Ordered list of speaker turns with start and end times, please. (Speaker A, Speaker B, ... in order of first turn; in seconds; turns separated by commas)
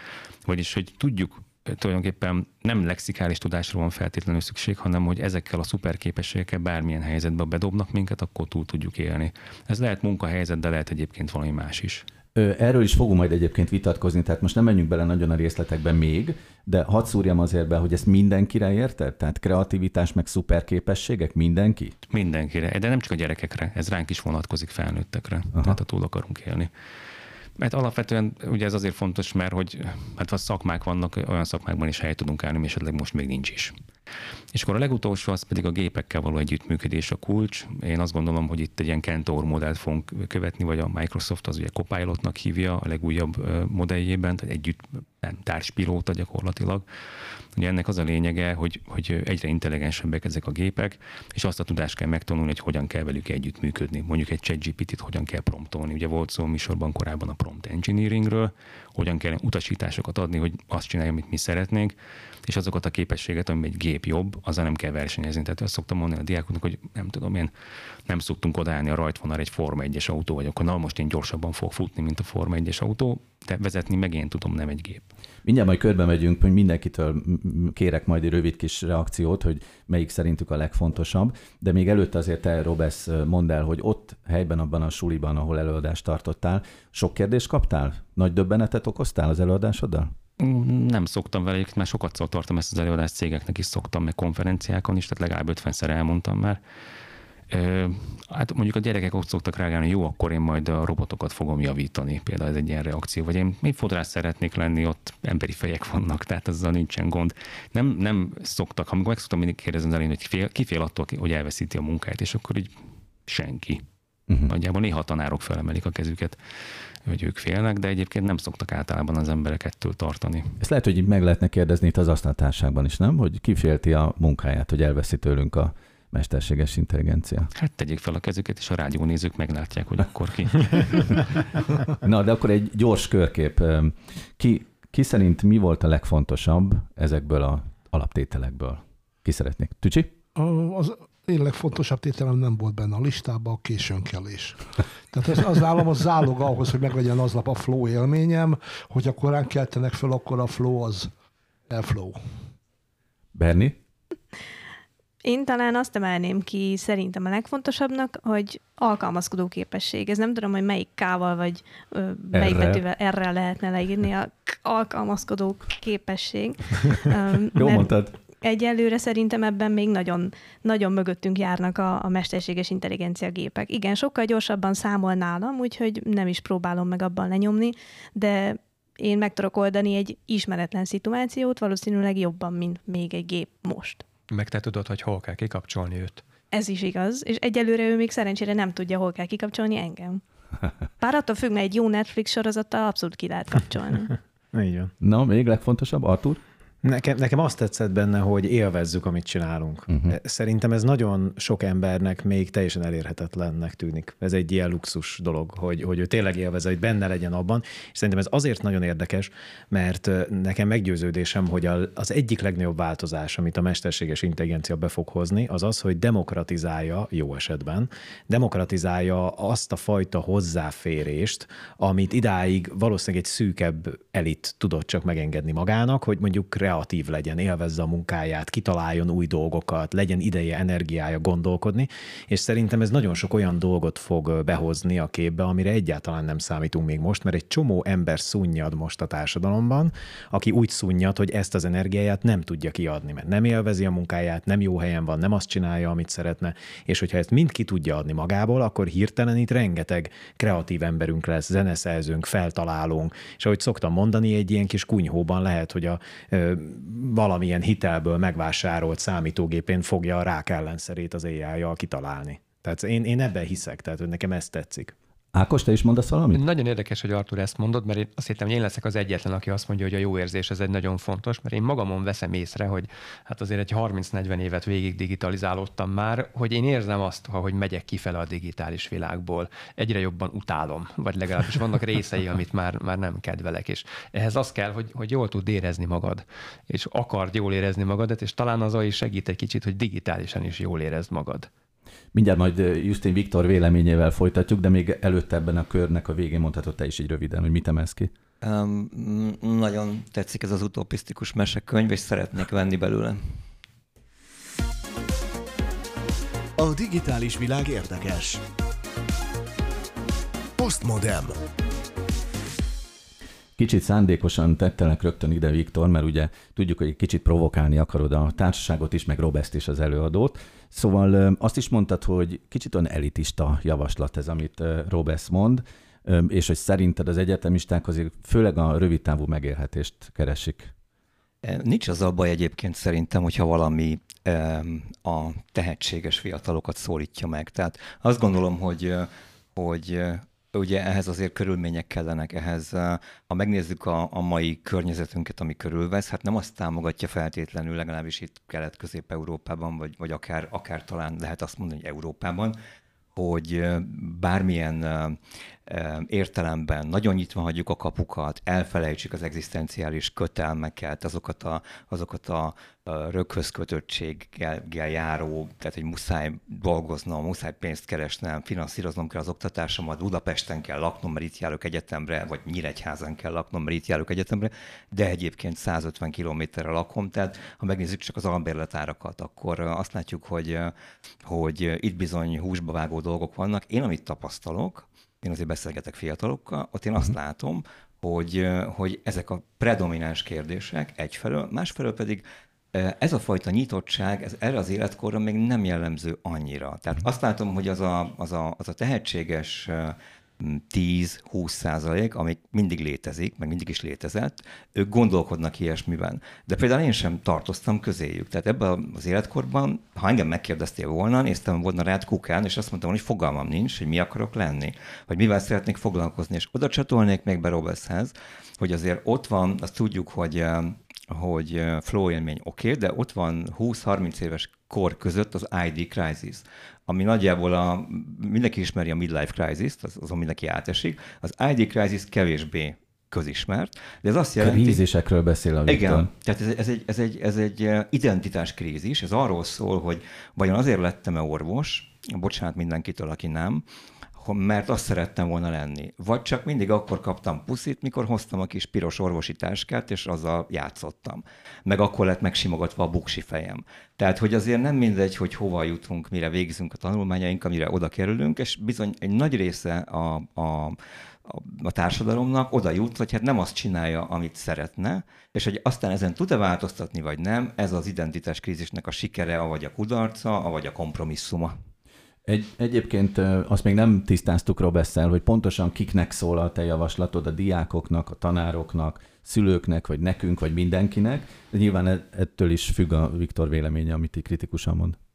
Speaker A: 0.5-12.1, Speaker B: 12.3-21.9, Speaker A: 22.1-26.7, Speaker A: 27.6-33.8, Speaker A: 34.5-46.9, Speaker A: 47.6-67.5, Speaker A: 68.1-75.1, Speaker B: 75.4-90.1, Speaker A: 90.4-96.6, Speaker A: 97.5-112.8, Speaker A: 113.3-113.8, Speaker A: 114.5-116.4, Speaker A: 117.0-120.6, Speaker B: 120.6-127.5, Speaker A: 127.5-131.2, Speaker B: 131.9-140.1, Speaker C: 140.3-151.1, Speaker C: 151.7-152.2, Speaker B: 153.3-153.8, Speaker D: 155.2-184.0, Speaker B: 162.3-162.8, Speaker B: 167.6-168.1, Speaker E: 184.3-186.2, Speaker D: 186.5-190.2, Speaker D: 191.0-194.1, Speaker F: 194.5-194.9, Speaker B: 195.0-196.4, Speaker F: 196.8-264.9, Speaker B: 265.3-266.4, Speaker E: 266.3-291.5, Speaker B: 292.1-298.1, Speaker G: 298.4-303.4, Speaker H: 306.6-308.4, Speaker H: 310.6-311.4, Speaker B: 313.6-330.7, Speaker G: 331.4-352.6, Speaker G: 353.1-434.8, Speaker B: 434.4-436.1, Speaker G: 435.7-443.6, Speaker G: 444.2-471.6, Speaker B: 472.2-485.0